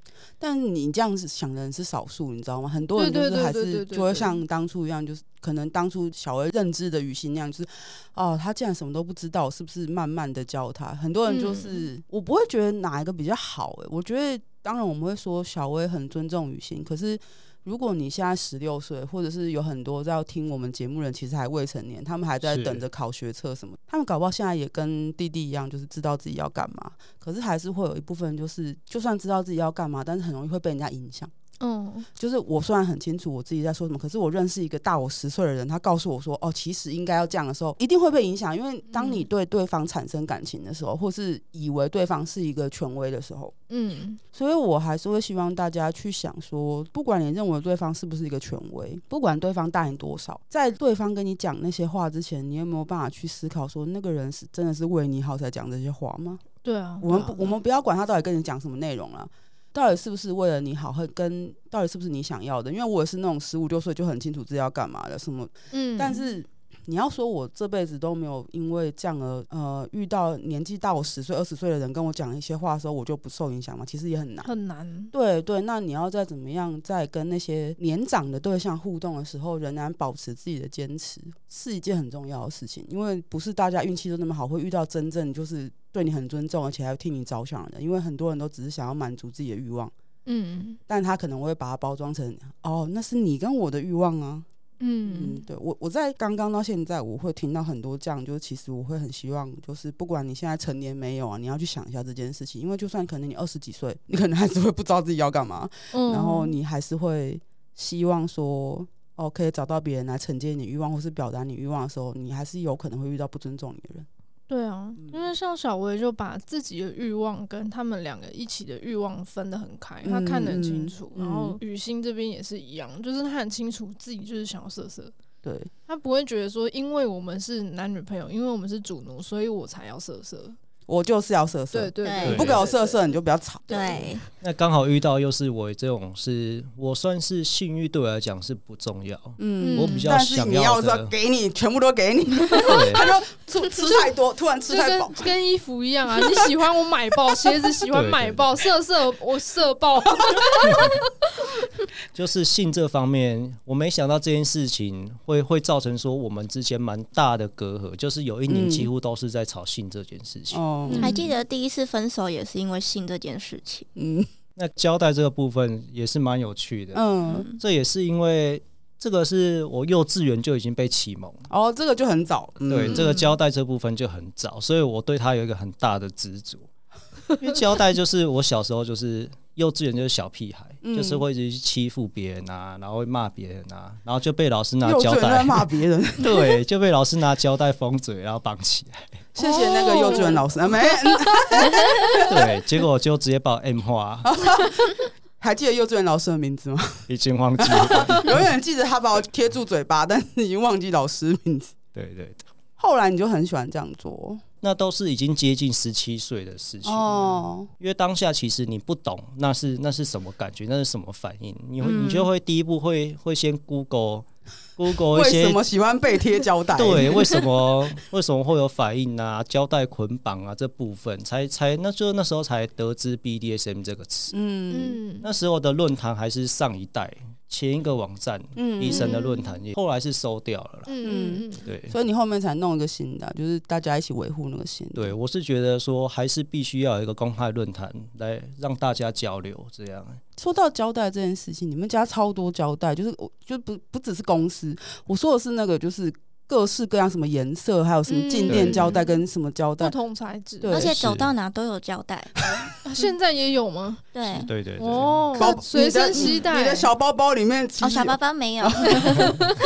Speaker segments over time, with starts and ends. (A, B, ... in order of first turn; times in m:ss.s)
0:00.4-0:31.3 A
0:03.0-0:04.4 B
0:11.3-0:11.9 B
0:22.4-0:22.8 C
0:31.6-0:32.1 B
0:32.2-0:43.5 A
0:38.9-0:39.3 B
0:43.7-0:44.2 B
0:44.3-0:56.4 A
0:56.6-0:57.5 B
0:57.0-1:14.5 A
1:05.7-1:06.3 B
1:14.4-1:15.1 B
1:15.1-1:29.9 A
1:30.2-1:30.8 B
1:30.9-1:34.4 A
1:34.8-1:35.4 B
1:35.0-1:54.1 A
1:45.9-1:46.6 B
1:54.5-2:05.1 B
1:55.0-1:55.3 A
2:00.0-2:01.6 A
2:05.4-2:05.7 A
2:05.9-2:10.6 B
2:10.9-2:14.0 A
2:11.7-2:13.0 B
2:12.0-2:12.5 D
2:12.2-2:12.6 C
2:13.7-2:14.2 B
2:13.7-2:14.2 D
2:14.4-2:21.1 C
2:19.4-2:25.3 A
2:19.6-2:20.0 B
2:22.6-2:23.0 C
2:22.7-2:23.0 B
2:23.8-2:24.1 B
2:24.7-2:31.0 B
2:27.9-2:28.5 C
2:30.6-2:30.9 C
2:32.1-2:40.6 C
2:38.5-2:38.9 A
2:40.5-2:41.2 A
2:40.9-2:41.3 B
2:40.9-2:43.9 D
2:44.0-2:44.3 A
2:44.6-2:47.0 C
2:46.9-2:47.4 A
2:47.3-2:47.6 D
2:47.6-2:51.5 C
2:51.5-2:53.1 A
2:52.6-2:56.7 C
2:57.3-3:09.3 C
3:00.8-3:01.2 A
3:04.8-3:06.3 A
3:09.4-3:12.2 B
3:09.4-3:12.4 A
3:12.1-3:14.3 C
3:14.2-3:21.7 A
3:17.1-3:18.5 C
3:21.9-3:22.5 C
3:22.8-3:24.4 A
3:24.6-3:35.6 C
3:26.8-3:27.7 A
3:31.8-3:32.3 D
3:35.1-3:37.4 A
3:36.7-3:44.4 C
3:44.3-3:45.0 A
3:44.7-3:45.3 B
3:45.2-3:50.9 C
3:48.5-3:49.2 A
3:48.9-3:49.6 B
3:50.9-3:51.7 B
3:51.0-3:55.1 A
3:51.6-3:51.9 C
3:54.9-4:00.2 C
4:00.4-4:09.9 A
4:08.1-4:09.2 B
4:08.5-4:09.0 C
4:09.8-4:10.7 B
4:10.6-4:11.0 A
4:10.6-4:12.4 D
4:10.8-4:11.3 C
4:12.4-4:13.1 A
4:12.8-4:14.1 B
4:14.1-4:14.5 D
4:14.3-4:15.6 C
4:14.8-4:16.9 B
4:15.3-4:19.4 A
4:17.8-4:19.4 D
4:19.0-4:19.4 B